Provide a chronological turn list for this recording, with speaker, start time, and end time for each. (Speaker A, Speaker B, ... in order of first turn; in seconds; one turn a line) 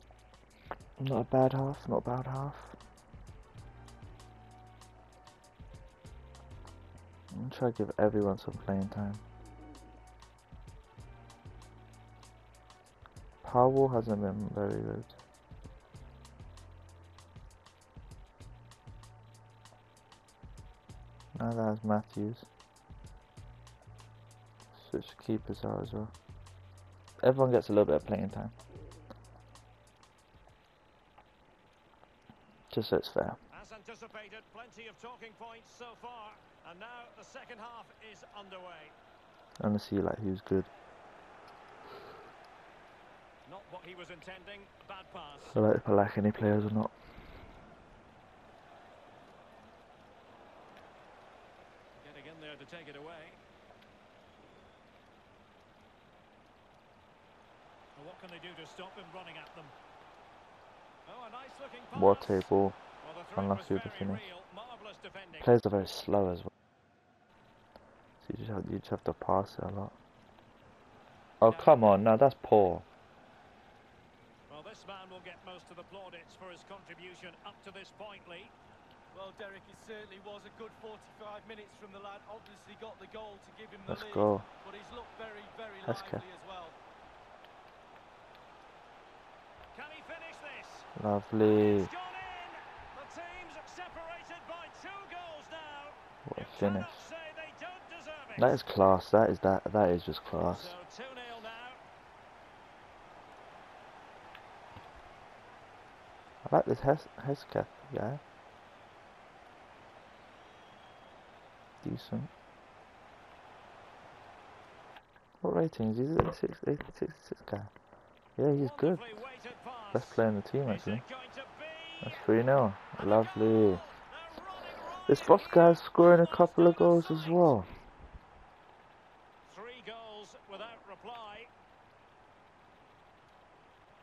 Speaker A: 1.0-2.8
Speaker A: 7.3-9.2
Speaker A: 13.4-15.2
Speaker A: 21.4-22.5
Speaker A: 24.8-26.1
Speaker A: 27.2-28.6
Speaker A: 32.7-33.4
Speaker B: 33.5-39.0
Speaker A: 39.6-40.7
Speaker B: 43.5-45.6
Speaker A: 45.5-46.9
Speaker B: 52.0-53.4
Speaker B: 58.0-59.7
Speaker B: 61.0-65.5
Speaker A: 62.0-62.8
Speaker A: 63.4-64.2
Speaker A: 65.4-66.5
Speaker A: 68.2-70.0
Speaker A: 71.4-72.8
Speaker B: 71.4-71.9
Speaker B: 74.5-78.5
Speaker C: 79.1-86.8
Speaker A: 83.9-84.5
Speaker A: 85.9-86.2
Speaker B: 89.7-90.9
Speaker A: 91.0-91.9
Speaker B: 91.4-98.6
Speaker A: 96.2-97.1
Speaker A: 98.4-100.7
Speaker B: 100.5-101.8
Speaker A: 106.5-108.2
Speaker A: 111.8-112.3
Speaker A: 115.4-117.7
Speaker A: 118.4-119.1
Speaker B: 118.5-122.2
Speaker A: 119.9-121.0
Speaker A: 122.0-123.8
Speaker B: 123.0-127.6
Speaker A: 125.1-127.7
Speaker B: 129.5-131.5